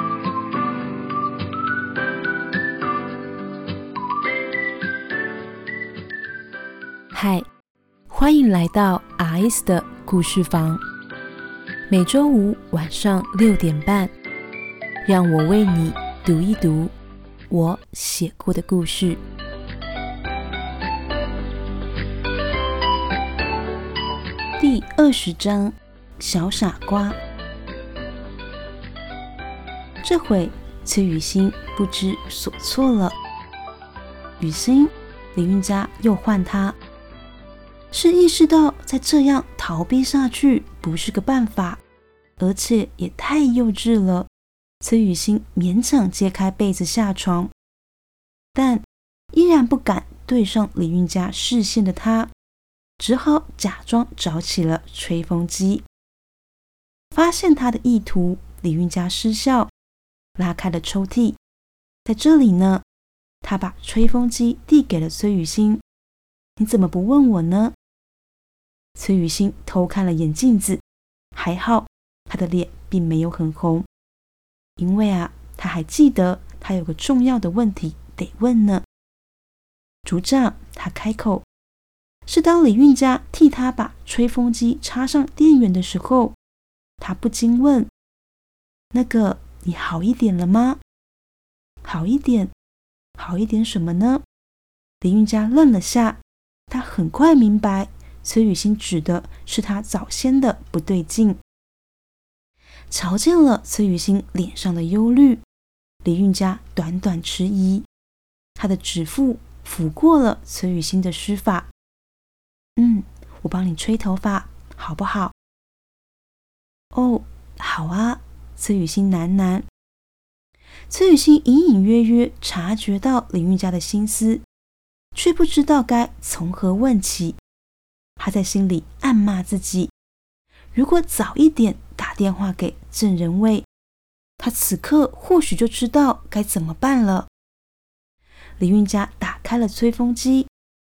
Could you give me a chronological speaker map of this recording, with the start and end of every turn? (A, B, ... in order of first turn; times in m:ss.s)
0:07.1-0:07.4 A
0:08.1-0:10.8 A
0:11.9-0:14.1 A
0:15.0-0:16.9 A
0:17.5-0:19.2 A
0:24.6-0:27.2 A
0:30.0-0:33.2 A
0:34.4-0:36.8 A
0:37.9-0:41.8 A
0:42.4-0:44.3 A
0:44.8-0:47.5 A
0:48.5-0:52.3 A
0:53.0-0:55.8 A
0:57.1-0:59.7 A
1:00.4-1:01.4 A
1:02.0-1:02.8 A
1:03.4-1:05.8 A
1:06.6-1:07.7 A
1:09.0-1:10.8 A
1:11.3-1:13.9 A
1:14.8-1:18.8 A
1:20.0-1:21.4 A
1:22.3-1:26.4 A
1:27.0-1:27.9 A
1:28.9-1:30.8 A
1:31.8-1:32.5 A
1:33.2-1:34.2 A
1:35.0-1:41.4 A
1:42.9-1:45.4 A
1:46.0-1:47.9 A
1:48.6-1:51.7 A
1:52.8-1:55.3 A
1:56.9-1:59.7 A
2:00.9-2:04.4 A
2:05.1-2:07.4 A
2:08.2-2:09.9 A
2:10.7-2:13.6 A
2:14.4-2:17.3 A
2:18.6-2:20.5 A